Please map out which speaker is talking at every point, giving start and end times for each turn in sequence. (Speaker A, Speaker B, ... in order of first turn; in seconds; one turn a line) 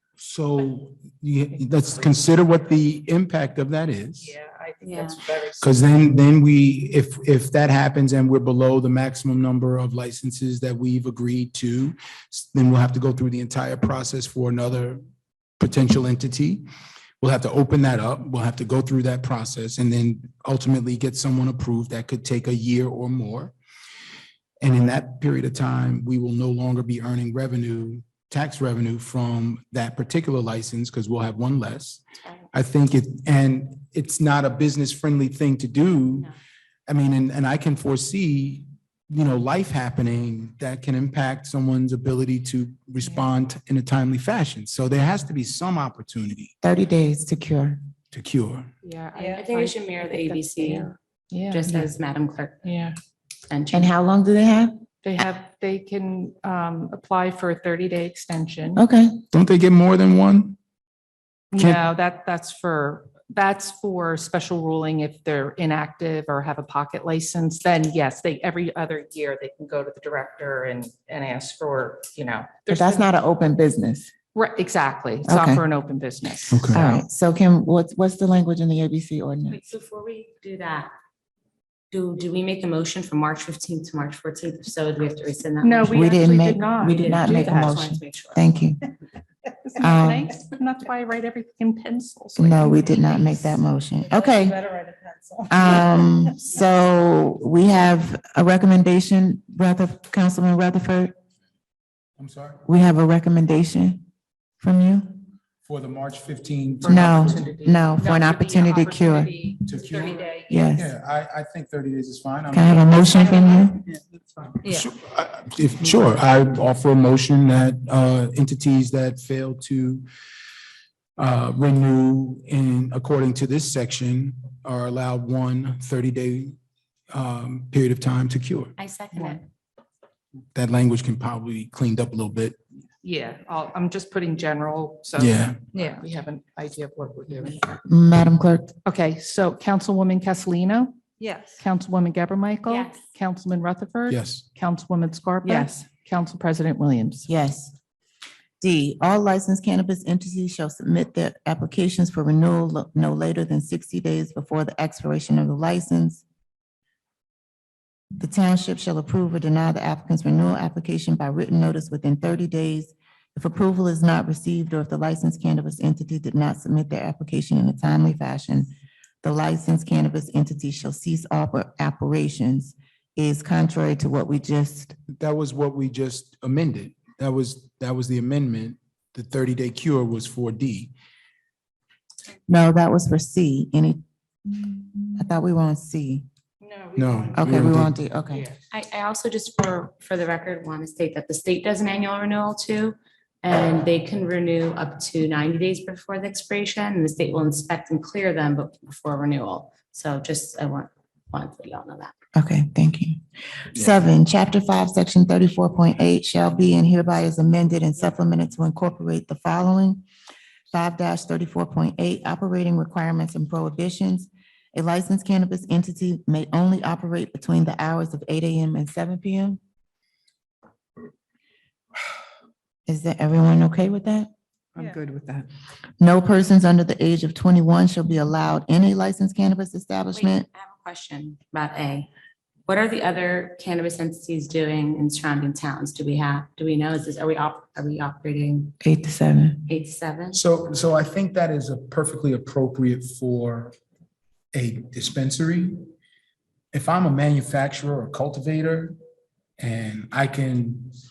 Speaker A: 0.2-4.3
Speaker B: 4.2-5.9
Speaker C: 4.8-5.2
Speaker A: 5.6-15.0
Speaker A: 15.6-16.6
Speaker A: 17.2-23.5
Speaker A: 24.6-32.0
Speaker A: 32.5-36.3
Speaker A: 36.9-46.5
Speaker B: 43.0-43.3
Speaker D: 46.6-47.8
Speaker A: 48.1-48.7
Speaker B: 48.8-51.9
Speaker C: 49.3-50.9
Speaker C: 51.5-52.6
Speaker B: 52.6-53.0
Speaker C: 53.5-53.9
Speaker D: 53.7-54.8
Speaker B: 55.0-58.8
Speaker D: 58.8-59.2
Speaker A: 59.3-60.6
Speaker B: 61.5-73.1
Speaker A: 61.5-61.8
Speaker D: 72.7-74.1
Speaker B: 74.3-77.0
Speaker D: 75.2-75.6
Speaker A: 76.5-76.8
Speaker D: 76.7-79.6
Speaker C: 79.5-80.9
Speaker C: 81.9-86.1
Speaker B: 85.6-87.7
Speaker D: 85.9-88.8
Speaker C: 86.8-88.5
Speaker B: 89.7-93.1
Speaker D: 89.8-90.3
Speaker D: 92.4-94.6
Speaker E: 94.1-95.4
Speaker D: 95.5-101.1
Speaker A: 102.2-102.6
Speaker D: 102.7-104.0
Speaker D: 104.6-105.2
Speaker A: 105.7-107.5
Speaker B: 106.8-110.9
Speaker D: 106.8-109.5
Speaker A: 109.7-110.2
Speaker D: 110.5-110.9
Speaker A: 110.8-113.2
Speaker D: 112.5-113.8
Speaker E: 114.6-114.9
Speaker A: 114.6-120.0
Speaker A: 121.2-126.5
Speaker A: 127.1-128.7
Speaker C: 128.8-129.4
Speaker B: 129.1-129.4
Speaker A: 130.5-132.6
Speaker B: 133.0-137.8
Speaker A: 135.2-135.6
Speaker E: 135.7-136.0
Speaker D: 137.8-138.7
Speaker B: 138.8-147.3
Speaker E: 141.2-141.6
Speaker C: 142.7-143.0
Speaker A: 144.1-144.4
Speaker D: 147.3-147.7
Speaker D: 148.6-156.2
Speaker D: 158.2-175.0
Speaker A: 175.1-180.9
Speaker D: 182.5-184.0
Speaker D: 185.1-186.2
Speaker B: 186.6-187.6
Speaker A: 186.9-188.0
Speaker D: 187.3-188.5
Speaker C: 188.7-202.1
Speaker D: 202.3-203.2
Speaker D: 203.7-210.0
Speaker D: 210.7-219.6
Speaker D: 222.9-224.3
Speaker E: 224.8-225.4
Speaker D: 226.0-230.4
Speaker C: 230.1-232.1
Speaker C: 232.7-238.7
Speaker D: 238.8-239.6
Speaker C: 239.7-240.4
Speaker A: 240.3-243.7
Speaker A: 244.5-245.8
Speaker A: 246.7-248.9
Speaker A: 249.6-250.9